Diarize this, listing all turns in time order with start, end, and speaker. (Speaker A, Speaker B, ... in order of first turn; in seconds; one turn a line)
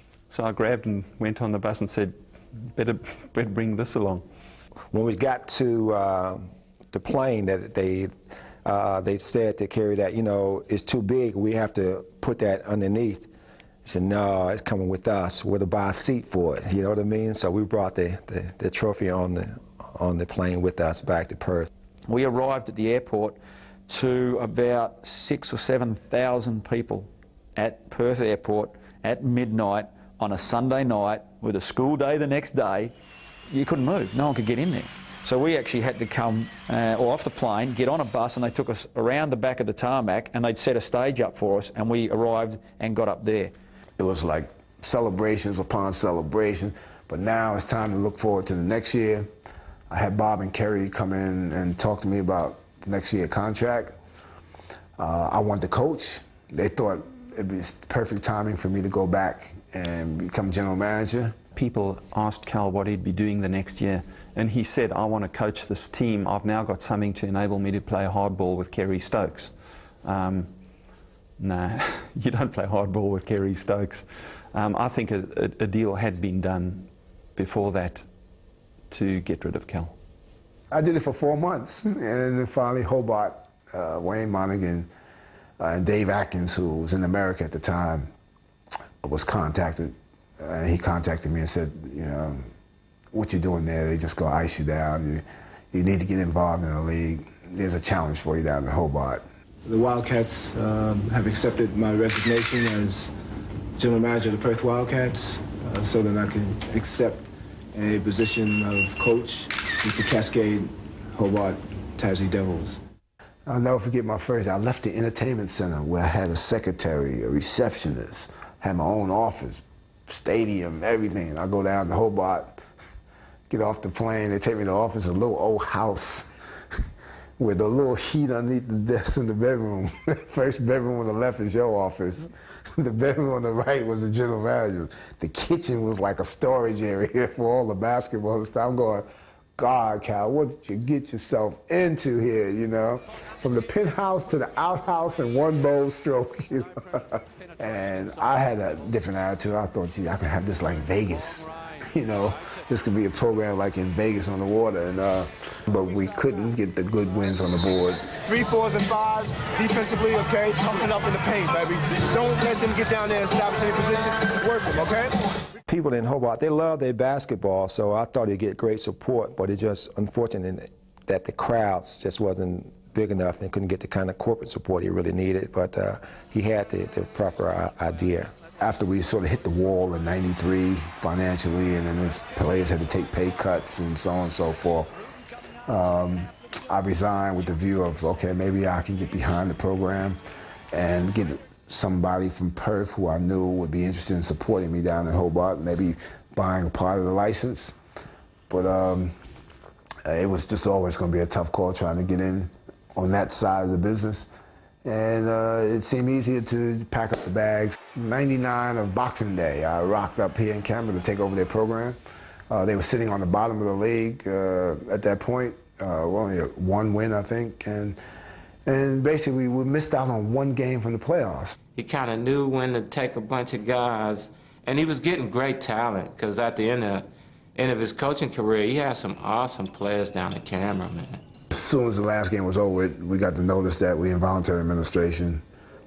Speaker A: 0.3-4.3
Speaker B: 4.9-8.1
Speaker B: 8.7-13.3
Speaker B: 13.8-21.7
Speaker C: 22.1-23.4
Speaker C: 23.9-32.9
Speaker C: 33.5-43.5
Speaker D: 44.0-49.3
Speaker D: 49.9-54.0
Speaker D: 55.0-61.4
Speaker A: 61.5-70.5
Speaker A: 71.4-78.1
Speaker A: 78.9-80.0
Speaker D: 80.7-84.9
Speaker D: 85.6-88.1
Speaker D: 89.0-92.5
Speaker D: 93.1-103.1
Speaker D: 103.8-112.8
Speaker D: 113.5-122.6
Speaker D: 123.5-126.3
Speaker D: 127.4-158.2
Speaker E: 158.2-165.1
Speaker B: 165.7-178.3
Speaker D: 178.6-184.9
Speaker D: 185.7-190.2
Speaker D: 190.7-197.8
Speaker D: 198.5-199.2
Speaker D: 200.1-204.3
Speaker D: 204.8-212.0
Speaker D: 212.5-218.0
Speaker D: 218.7-221.6
Speaker F: 221.8-231.2
Speaker D: 231.5-235.4